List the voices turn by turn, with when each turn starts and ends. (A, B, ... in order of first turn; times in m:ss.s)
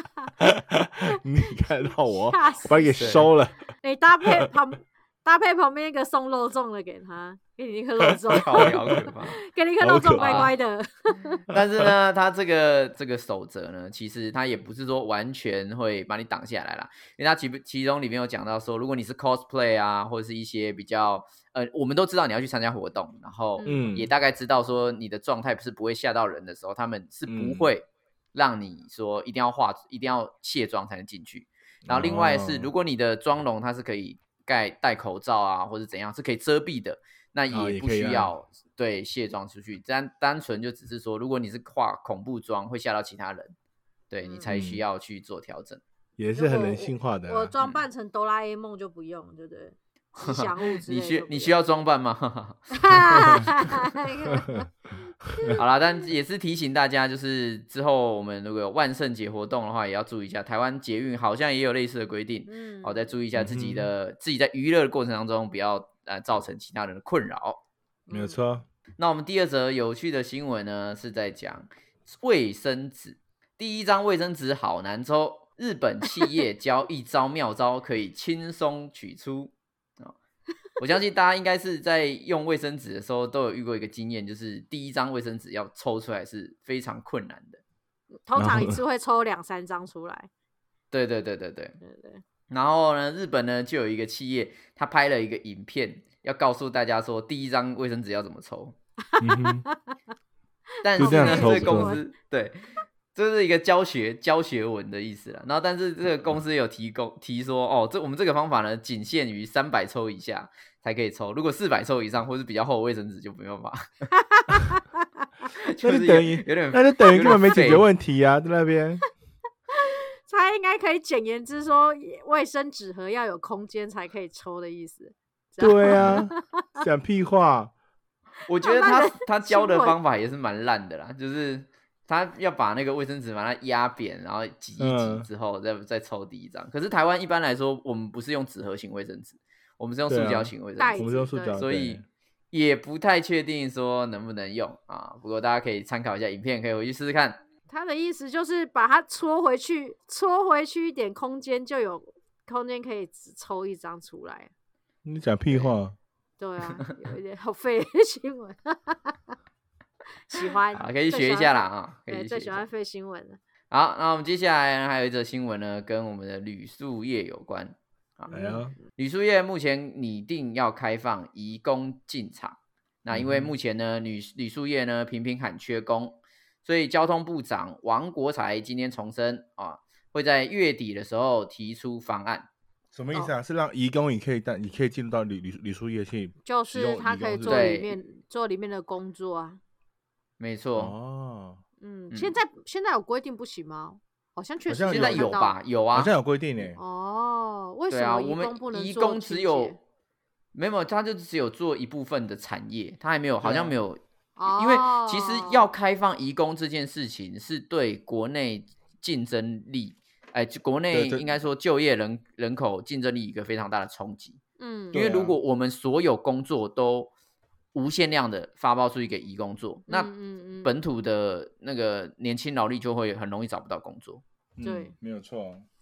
0:00.4-0:03.6 A
0:02.3-0:03.2 B
0:03.0-0:03.3 C
0:03.8-0:11.4 B
0:08.3-0:09.4 C
0:08.3-0:09.0 A
0:09.8-0:10.5 A
0:10.2-0:10.5 C
0:11.5-0:43.5 C
0:11.5-0:11.9 A
0:23.6-0:23.9 B
0:23.7-0:24.1 A
0:27.3-0:27.7 A
0:31.9-0:32.7 A
0:37.5-0:38.3 A
0:44.1-0:45.8 C
0:44.2-0:44.5 B
0:44.5-0:44.8 A
0:46.2-0:47.5 A
0:46.4-0:51.6 B
0:50.2-0:53.8 C
0:52.7-0:54.7 B
0:54.4-0:54.6 A
0:55.6-1:07.6 C
1:02.5-1:03.1 B
1:03.3-1:03.9 A
1:08.1-1:08.4 B
1:08.1-1:08.6 A
1:09.0-1:20.2 C
1:20.8-1:27.6 C
1:28.2-1:30.3 B
1:28.4-1:28.8 A
1:30.9-1:31.8 C
1:31.8-1:32.2 B
1:32.5-1:38.8 C
1:39.1-1:40.0 B
1:39.2-1:39.7 A
1:40.8-1:42.6 C
1:40.9-1:42.0 B
1:41.0-1:42.0 A
1:43.2-1:53.8 C
1:54.3-1:54.8 B
1:55.6-1:57.9 C
1:55.8-1:59.0 A
2:00.3-2:06.4 B
2:05.6-2:07.7 A
2:08.5-2:27.4 C
2:08.6-2:10.0 B
2:14.8-2:15.3 A
2:20.1-2:22.0 A
2:20.8-2:21.6 B
2:27.7-2:34.5 B
2:35.0-2:36.0 A
2:35.5-2:35.7 C
2:36.4-2:39.4 B
2:40.2-2:43.4 B
2:40.8-2:42.6 C
2:43.7-3:02.5 C
2:48.3-2:48.8 A
2:53.1-2:53.5 A
3:02.9-3:07.7 A
3:06.4-3:09.6 B
3:07.5-3:08.0 C
3:10.4-3:10.9 C
3:10.8-3:11.6 A
3:11.8-3:15.6 B
3:12.1-3:12.4 C
3:14.7-3:15.4 A
3:14.9-3:16.1 C
3:15.9-3:16.8 A
3:16.8-3:19.8 B
3:17.9-3:19.8 C
3:20.6-3:24.0 C
3:23.4-3:23.8 A
3:24.4-3:25.7 B
3:24.5-3:34.4 C
3:30.9-3:31.3 A
3:34.6-3:35.0 B
3:34.9-3:35.4 A
3:34.9-3:37.1 C
3:37.7-3:40.1 C
3:39.9-3:40.7 B
3:40.6-3:44.2 C
3:44.6-3:45.7 A
3:44.6-3:44.9 B